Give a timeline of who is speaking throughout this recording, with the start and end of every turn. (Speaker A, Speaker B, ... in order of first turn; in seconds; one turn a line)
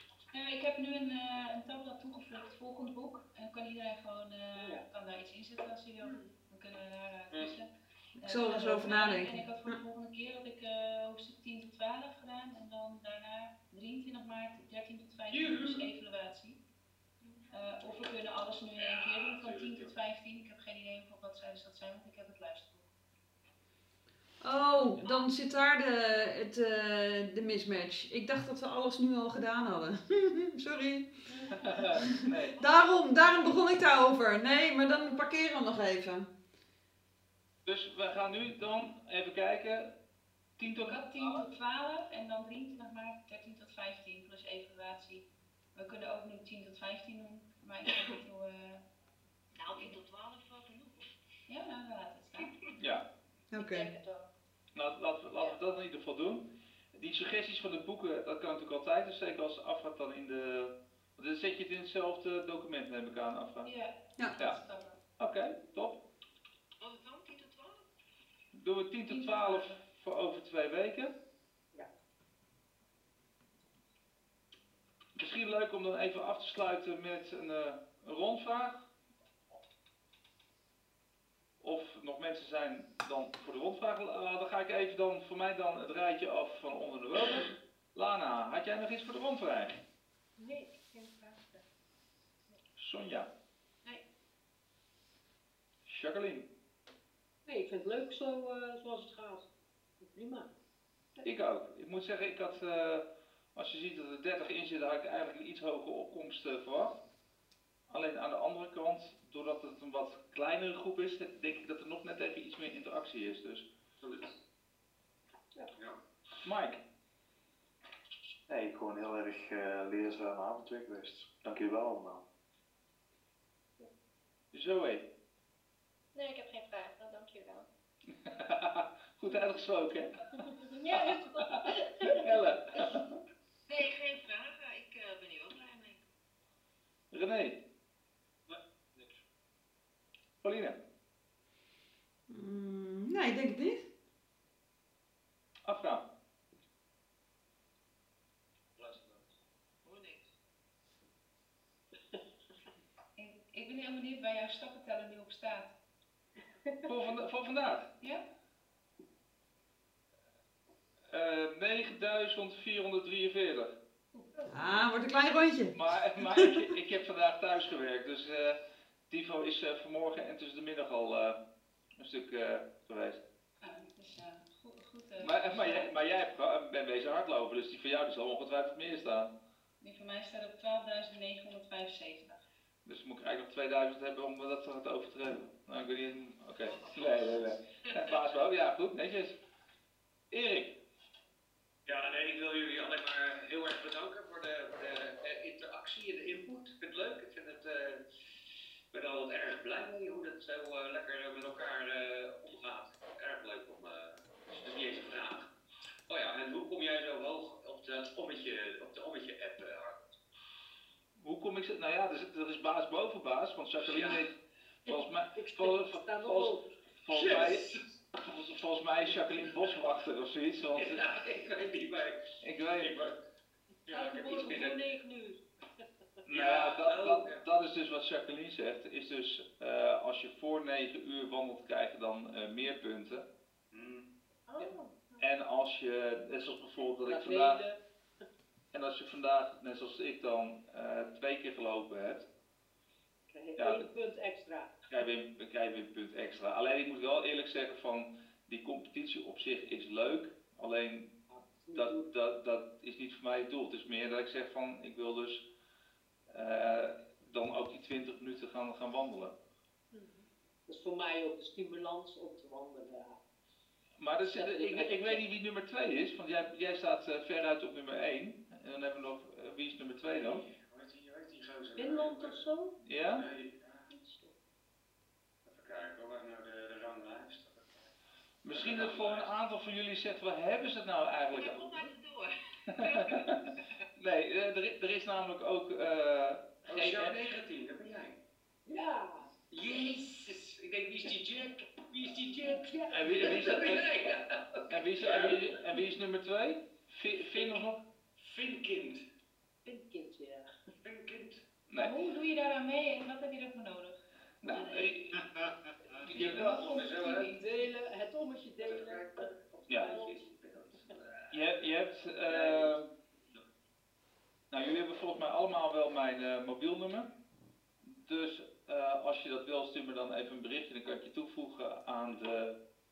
Speaker A: 0.3-16.6
Speaker B: 4.5-4.8
Speaker C: 6.0-6.3
Speaker D: 8.2-9.8
Speaker E: 15.3-15.9
Speaker A: 17.5-22.9
Speaker E: 18.7-19.9
Speaker D: 24.4-31.1
Speaker F: 25.0-25.3
Speaker C: 31.3-31.6
Speaker G: 31.6-32.5
Speaker D: 32.0-36.3
Speaker F: 32.6-33.5
Speaker G: 37.7-39.9
Speaker G: 40.6-41.4
Speaker A: 40.8-48.8
Speaker F: 49.6-51.1
Speaker A: 49.7-50.0
Speaker A: 51.5-52.5
Speaker G: 52.8-53.0
Speaker D: 53.5-53.9
Speaker H: 53.6-54.3
Speaker G: 54.8-56.4
Speaker G: 57.0-63.7
Speaker A: 63.6-65.0
Speaker G: 65.2-66.0
Speaker F: 66.8-67.9
Speaker G: 68.5-71.1
Speaker A: 69.1-69.8
Speaker G: 75.2-78.9
Speaker G: 81.6-89.8
Speaker C: 90.4-91.7
Speaker G: 92.8-93.3
Speaker G: 95.9-96.5
Speaker B: 97.5-99.5
Speaker B: 100.0-100.5
Speaker G: 101.2-107.0
Speaker G: 107.9-113.7
Speaker E: 114.0-114.4
Speaker E: 115.8-116.0
Speaker G: 116.4-116.8
Speaker I: 118.5-122.2
Speaker G: 124.5-125.0
Speaker H: 126.2-127.7
Speaker G: 128.2-130.1
Speaker C: 130.7-131.1
Speaker H: 130.9-131.3
Speaker G: 131.3-133.1
Speaker F: 133.7-136.1
Speaker G: 137.1-137.6
Speaker G: 140.4-140.8
Speaker D: 142.3-143.9
Speaker G: 145.7-146.0
Speaker E: 148.8-149.2
Speaker F: 149.8-150.3
Speaker A: 153.2-155.8
Speaker C: 156.7-156.9
Speaker G: 156.9-157.9
Speaker A: 158.0-158.3
Speaker G: 161.1-163.8
Speaker D: 164.5-166.5
Speaker G: 165.7-168.6
Speaker G: 169.1-171.4
Speaker G: 172.0-173.2
Speaker A: 173.6-175.9
Speaker G: 175.2-179.3
Speaker A: 179.8-182.4
Speaker G: 182.8-189.4
Speaker F: 186.6-188.1
Speaker G: 190.3-190.8
Speaker E: 191.9-198.0
Speaker E: 198.9-205.5
Speaker E: 206.1-210.2
Speaker G: 211.2-214.3
Speaker E: 213.8-214.2
Speaker B: 214.9-216.7
Speaker G: 214.9-217.7
Speaker E: 217.1-218.0
Speaker G: 218.2-221.0
Speaker E: 220.7-223.2
Speaker G: 222.4-223.0
Speaker E: 223.9-224.8
Speaker B: 223.9-225.4
Speaker G: 226.3-233.3
Speaker E: 226.3-227.4
Speaker E: 233.7-234.1
Speaker C: 234.5-235.2
Speaker G: 235.2-237.6
Speaker B: 237.0-237.8
Speaker G: 238.7-242.3
Speaker B: 243.3-244.8
Speaker G: 243.6-243.9
Speaker G: 244.9-251.1
Speaker B: 251.3-252.1
Speaker G: 251.7-255.4
Speaker G: 256.3-259.3
Speaker C: 259.9-260.2
Speaker B: 260.7-263.2
Speaker G: 264.0-270.4
Speaker B: 264.2-265.2
Speaker E: 270.1-272.5
Speaker B: 271.8-272.8
Speaker G: 272.8-273.3
Speaker E: 273.2-273.9
Speaker B: 273.9-274.4
Speaker E: 275.5-277.9
Speaker G: 278.4-281.7
Speaker E: 278.5-279.3
Speaker F: 281.3-283.6
Speaker G: 282.7-283.4
Speaker G: 284.0-287.1
Speaker E: 286.7-288.2
Speaker B: 288.7-289.3
Speaker E: 289.5-295.5
Speaker B: 292.4-293.6
Speaker G: 292.9-293.9
Speaker G: 294.7-297.8
Speaker E: 297.3-297.6
Speaker E: 298.2-299.1
Speaker B: 299.6-300.5
Speaker E: 300.8-301.5
Speaker A: 301.7-304.9
Speaker G: 304.4-305.2
Speaker E: 306.0-307.4
Speaker A: 306.1-307.7
Speaker G: 306.1-306.4
Speaker B: 307.3-310.2
Speaker E: 308.6-311.5
Speaker G: 309.7-310.0
Speaker G: 311.3-312.9
Speaker E: 312.3-312.8
Speaker G: 314.5-317.1
Speaker G: 317.8-322.6